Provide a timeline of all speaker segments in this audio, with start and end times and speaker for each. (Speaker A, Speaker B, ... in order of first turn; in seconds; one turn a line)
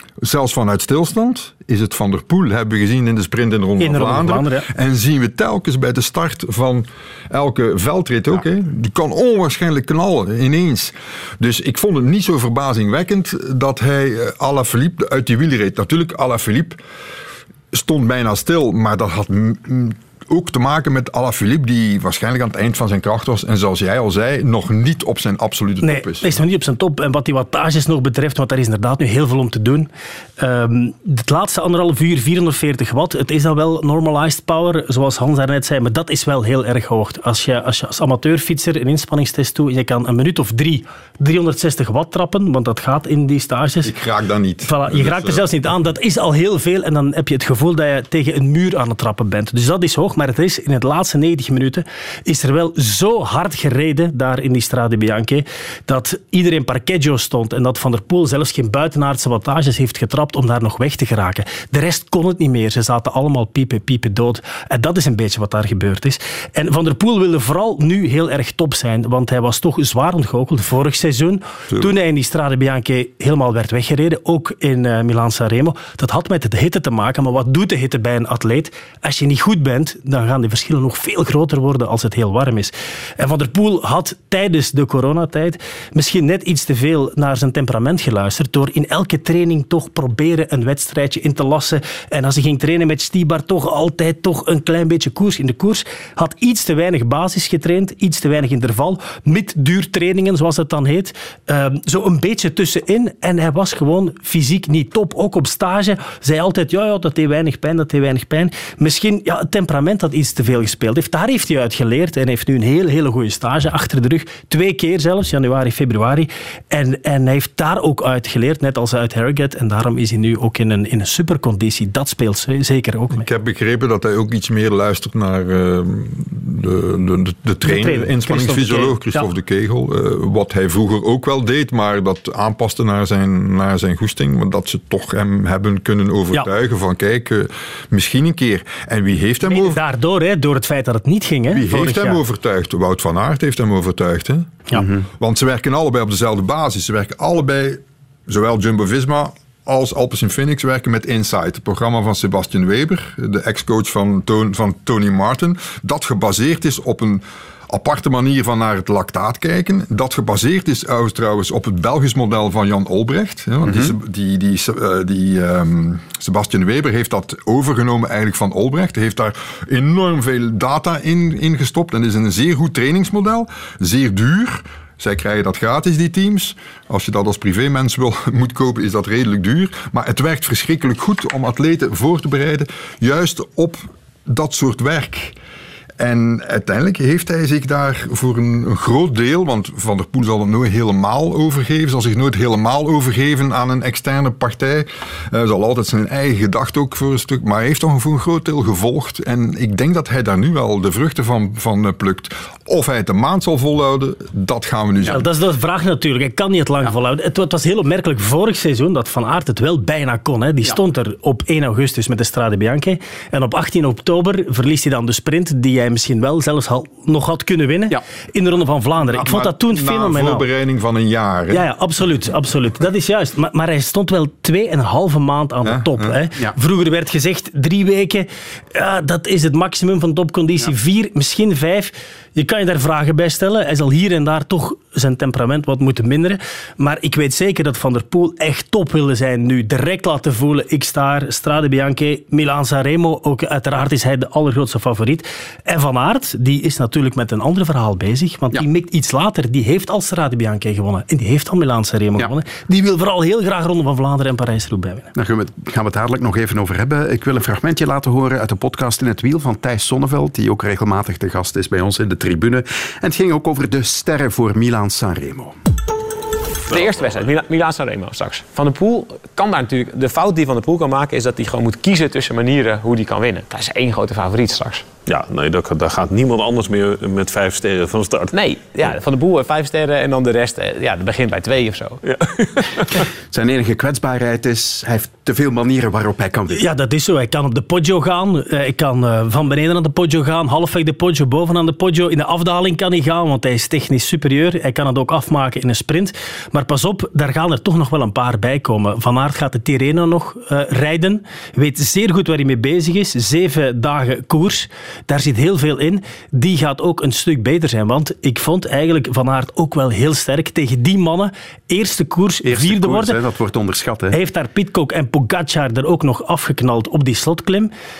Speaker A: 0.2-16.8
Speaker B: 3.8-4.7
Speaker A: 17.7-26.3
Speaker B: 25.8-43.9
Speaker A: 43.8-45.5
Speaker B: 44.6-123.3
Speaker A: 123.1-139.8
Speaker B: 127.6-129.3
Speaker B: 139.4-142.2
Speaker A: 141.5-185.3
Speaker C: 144.7-145.0
Speaker C: 163.6-163.9
Speaker A: 186.0-205.3
Speaker B: 205.1-220.5
Speaker A: 219.0-221.6
Speaker B: 221.5-255.1
Speaker A: 225.6-226.2
Speaker C: 255.1-265.5
Speaker D: 266.7-274.9
Speaker E: 275.1-278.3
Speaker D: 278.3-282.4
Speaker C: 283.3-286.6
Speaker B: 286.5-313.2
Speaker C: 312.4-314.2
Speaker B: 314.1-317.7